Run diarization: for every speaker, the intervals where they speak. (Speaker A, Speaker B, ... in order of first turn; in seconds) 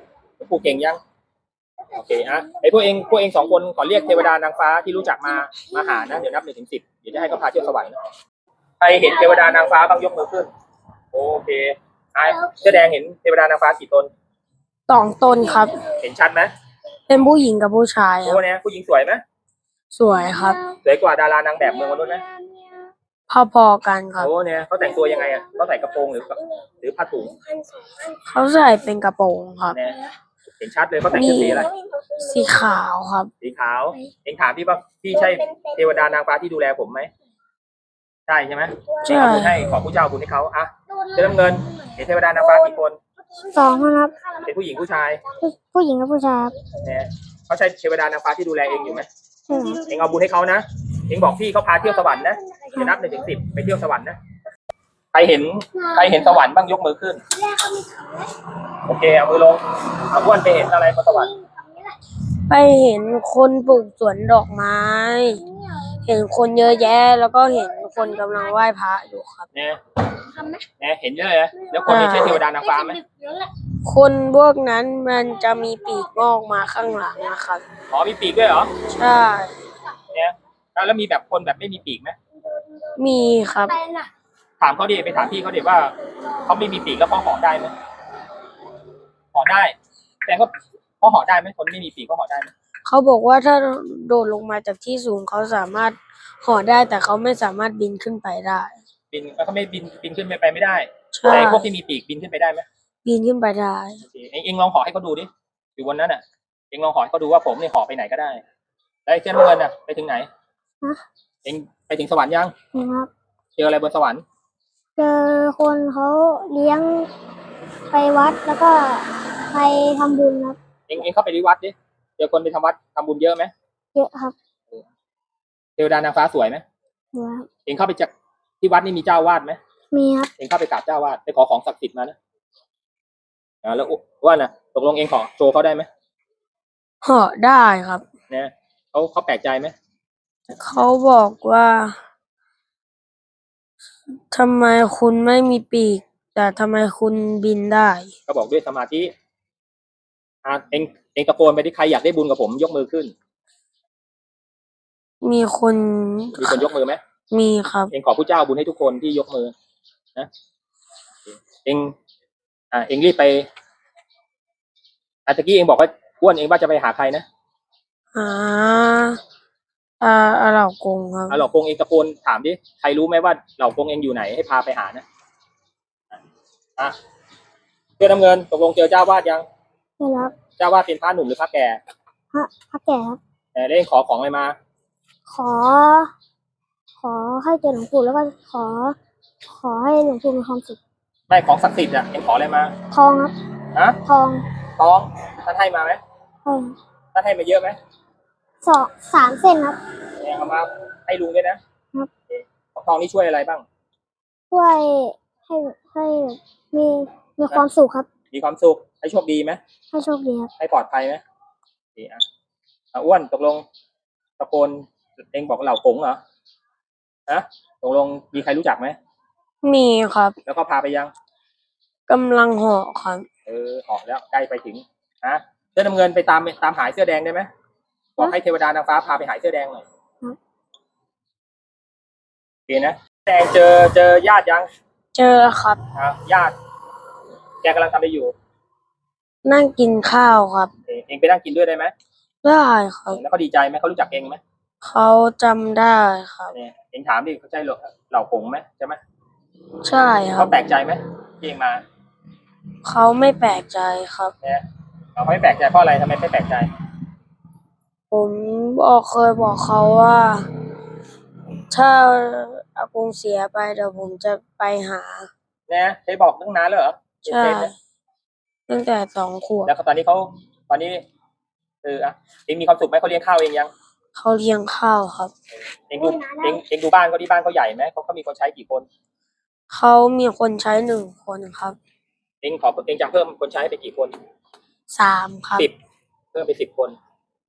Speaker A: 0.4-1.0, 1.9-8.0, 8.8-10.5, 11.1-14.1, 16.0-16.5, 18.2-19.2, 20.8-22.2, 24.2-27.4, 29.7-30.0, 30.6-31.7, 33.4-37.1, 38.3-43.0, 44.4-45.2, 46.8-49.1, 49.9-54.2, 55.1-57.2, 58.8-61.3, 69.5-69.8, 70.8-73.0, 77.9-78.7, 80.1-82.2, 84.6-87.7, 89.3-92.5, 99.1-102.7, 104.0-108.4, 109.1-110.3, 111.4-112.5, 113.6-114.2, 120.9-123.5, 125.8-126.6, 127.7-129.6, 130.4-132.2, 133.6-135.9, 138.3-139.8, 148.3-149.1, 150.4-153.1, 156.4-157.0, 157.9-159.5, 161.6-161.9, 162.7-163.4, 165.3-167.2, 171.3-175.0, 178.0-179.4, 180.6-181.8, 183.5-184.6, 191.3-192.7, 194.8-196.0, 197.1-197.8, 200.2-201.6, 202.3-203.6, 208.3-209.6, 210.6-211.2, 211.9-212.2, 212.9-213.6, 214.4-216.2, 217.3-218.9, 220.4-221.1, 223.4-227.5, 228.2-229.8, 232.7-234.7, 235.9-236.5, 237.6-238.3, 240.9-241.9, 243.1-244.4, 246.5-249.0, 250.3-251.8, 255.2-256.7, 265.7-267.7, 269.6-271.0, 271.8-273.7, 275.9-278.9, 282.4-284.1, 286.3-287.0
Speaker B: 14.9-15.9, 17.1-18.4, 19.9-20.6, 23.3-24.3, 28.2-29.8, 31.1-31.7, 32.2-33.3, 39.0-39.6, 62.5-69.5, 71.9-72.4, 73.8-77.6, 78.9-79.5, 83.0-83.8, 92.8-98.7, 101.1-101.7, 103.0-104.0, 137.0-138.0, 140.5-141.9, 144.3-148.1, 155.2-156.7, 157.3-157.9, 168.1-169.2, 170.0-171.4, 219.6-220.3, 222.1-223.2, 235.1-235.8, 239.4-240.7, 242.4-243.2, 244.8-246.5, 249.8-250.5, 252.8-254.3, 258.1-260.5, 261.7-265.3, 267.3-267.7, 268.7-269.7, 274.1-275.3, 279.7-281.8, 284.9-285.7
Speaker C: 43.5-44.1, 45.4-46.5, 49.5-49.8, 57.6-58.1, 112.7-113.1, 115.0-117.1, 117.9-120.6, 123.9-124.3, 127.1-127.5, 129.9-130.3, 180.0-180.3, 182.3-183.2, 185.3-186.1, 187.0-188.9, 189.5-190.8, 192.9-193.3, 194.0-194.4, 196.4-196.8, 198.6-199.8, 204.5-208.1, 209.9-210.5, 276.0-276.5